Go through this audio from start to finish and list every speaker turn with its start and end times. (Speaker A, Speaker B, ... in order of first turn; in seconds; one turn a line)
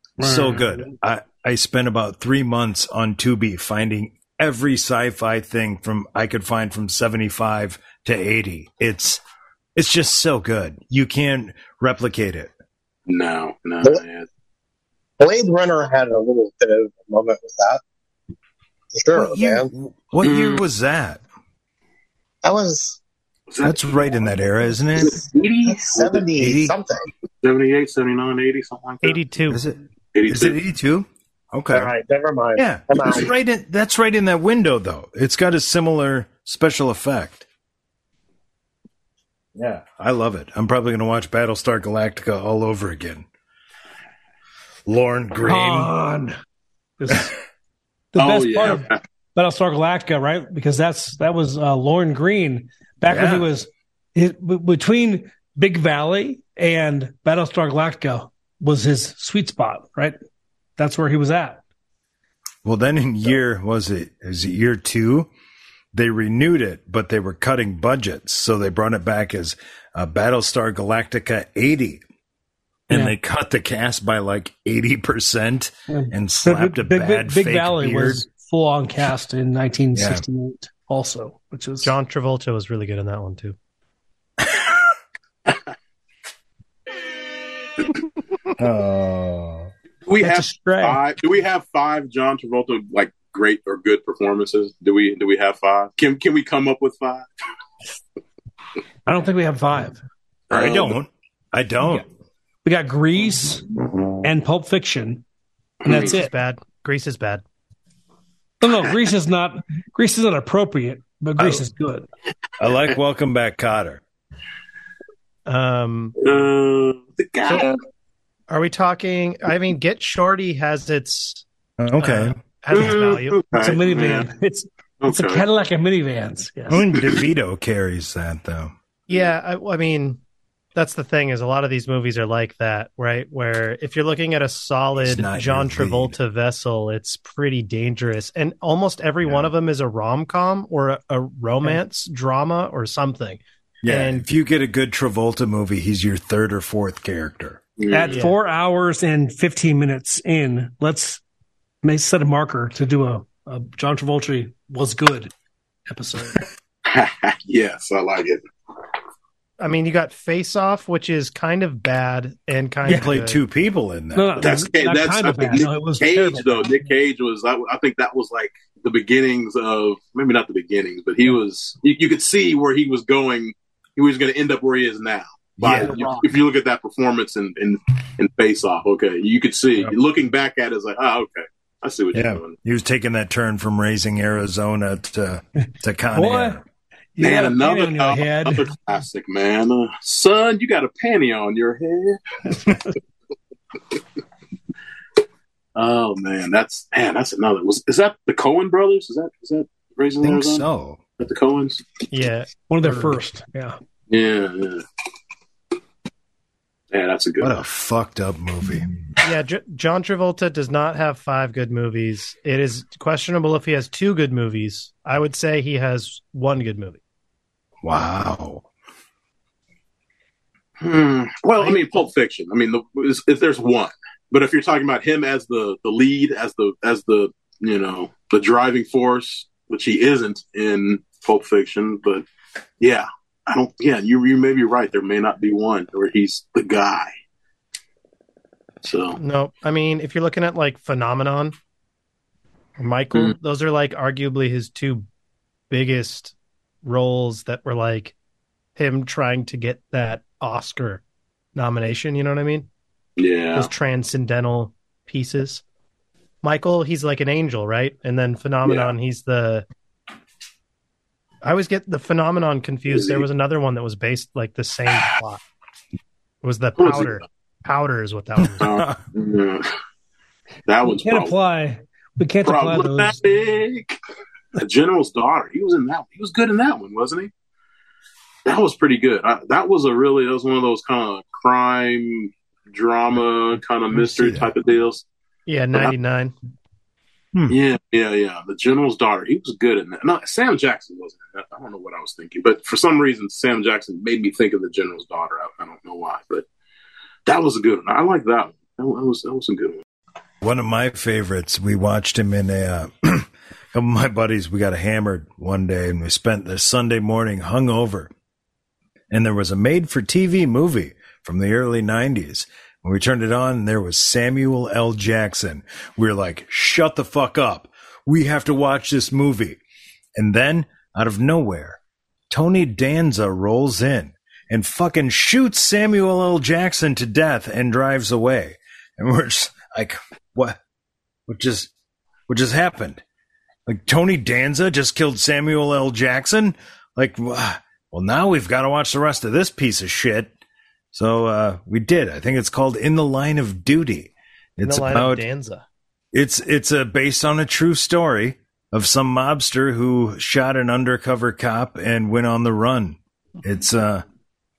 Speaker A: 0.2-0.9
Speaker B: 0.2-9.2
Speaker B: 9.8-12.5
Speaker C: 13.1-14.3
Speaker D: 15.2-17.8
Speaker D: 18.9-19.7
Speaker B: 19.1-21.2
Speaker C: 20.2-20.6
Speaker D: 22.4-23.0
Speaker C: 23.5-24.3
Speaker B: 23.6-25.2
Speaker D: 25.0-27.1
Speaker C: 25.1-26.2
Speaker B: 26.4-26.7
Speaker C: 27.4-29.2
Speaker E: 29.0-29.6
Speaker B: 29.5-31.9
Speaker C: 30.1-30.6
Speaker D: 31.7-33.3
Speaker B: 32.6-37.5
Speaker B: 39.6-43.3
Speaker B: 44.9-45.9
Speaker A: 45.4-46.4
Speaker A: 47.0-47.3
Speaker A: 48.1-60.2
Speaker C: 48.2-49.0
Speaker B: 53.1-53.5
Speaker A: 60.8-61.6
Speaker B: 62.6-65.3
Speaker B: 65.9-72.0
Speaker B: 72.9-78.2
Speaker A: 75.9-81.9
Speaker B: 79.9-80.2
Speaker E: 81.8-83.6
Speaker B: 84.4-84.8
Speaker B: 88.6-89.7
Speaker C: 90.0-97.3
Speaker A: 90.2-91.0
Speaker A: 99.1-100.0
Speaker C: 100.5-101.0
Speaker B: 100.5-102.0
Speaker A: 102.6-103.6
Speaker A: 104.2-105.2
Speaker C: 105.8-106.1
Speaker A: 105.8-106.3
Speaker E: 105.9-107.4
Speaker A: 108.6-112.1
Speaker B: 111.4-111.6
Speaker B: 112.6-114.0
Speaker E: 115.5-116.2
Speaker C: 116.2-117.7
Speaker E: 118.5-121.4
Speaker B: 121.8-122.4
Speaker E: 122.0-123.4
Speaker C: 122.7-124.3
Speaker A: 123.6-126.8
Speaker C: 125.0-125.4
Speaker B: 126.7-128.7
Speaker E: 129.1-130.2
Speaker E: 130.8-144.2
Speaker B: 135.0-136.2
Speaker B: 139.2-139.5
Speaker B: 143.8-147.6
Speaker C: 147.8-148.2
Speaker A: 147.9-151.2
Speaker E: 148.1-148.3
Speaker A: 151.8-155.3
Speaker A: 155.9-156.4
Speaker C: 156.9-158.4
Speaker E: 159.6-163.4
Speaker A: 162.8-163.1
Speaker B: 162.9-164.6
Speaker A: 164.2-166.8
Speaker C: 164.4-182.5
Speaker B: 175.6-176.0
Speaker A: 175.9-176.2
Speaker B: 182.1-186.6
Speaker A: 186.1-186.6
Speaker A: 187.2-188.7
Speaker C: 187.2-192.2
Speaker C: 195.8-200.7
Speaker B: 200.2-201.0
Speaker C: 201.2-201.9
Speaker E: 202.1-203.2
Speaker A: 202.7-203.8
Speaker C: 204.1-204.8
Speaker C: 206.9-207.6
Speaker B: 207.4-208.9
Speaker E: 209.2-217.0
Speaker B: 217.8-218.7
Speaker C: 220.8-232.3
Speaker E: 221.6-222.0
Speaker C: 232.8-237.1
Speaker C: 238.8-239.2
Speaker E: 239.2-241.6
Speaker E: 242.8-245.1
Speaker E: 245.7-248.1
Speaker E: 248.8-251.0
Speaker E: 251.6-252.7
Speaker C: 253.2-253.7
Speaker E: 253.6-255.6
Speaker E: 256.4-259.7
Speaker C: 258.6-258.9
Speaker E: 261.4-265.4
Speaker C: 262.9-263.3
Speaker E: 266.4-268.8
Speaker C: 266.8-267.2
Speaker C: 268.6-269.7
Speaker B: 268.6-269.0
Speaker C: 270.7-271.4
Speaker A: 270.8-273.2
Speaker C: 272.4-274.0
Speaker C: 274.6-277.3
Speaker C: 278.5-285.1
Speaker B: 283.9-284.5
Speaker E: 285.5-286.4
Speaker C: 287.5-296.5
Speaker C: 297.3-299.8
Speaker B: 300.4-308.1
Speaker B: 309.1-319.6
Speaker B: 320.2-330.6
Speaker B: 331.3-331.7
Speaker B: 332.3-333.0
Speaker B: 333.7-340.3
Speaker B: 340.9-345.2
Speaker E: 344.6-345.6
Speaker B: 346.1-354.0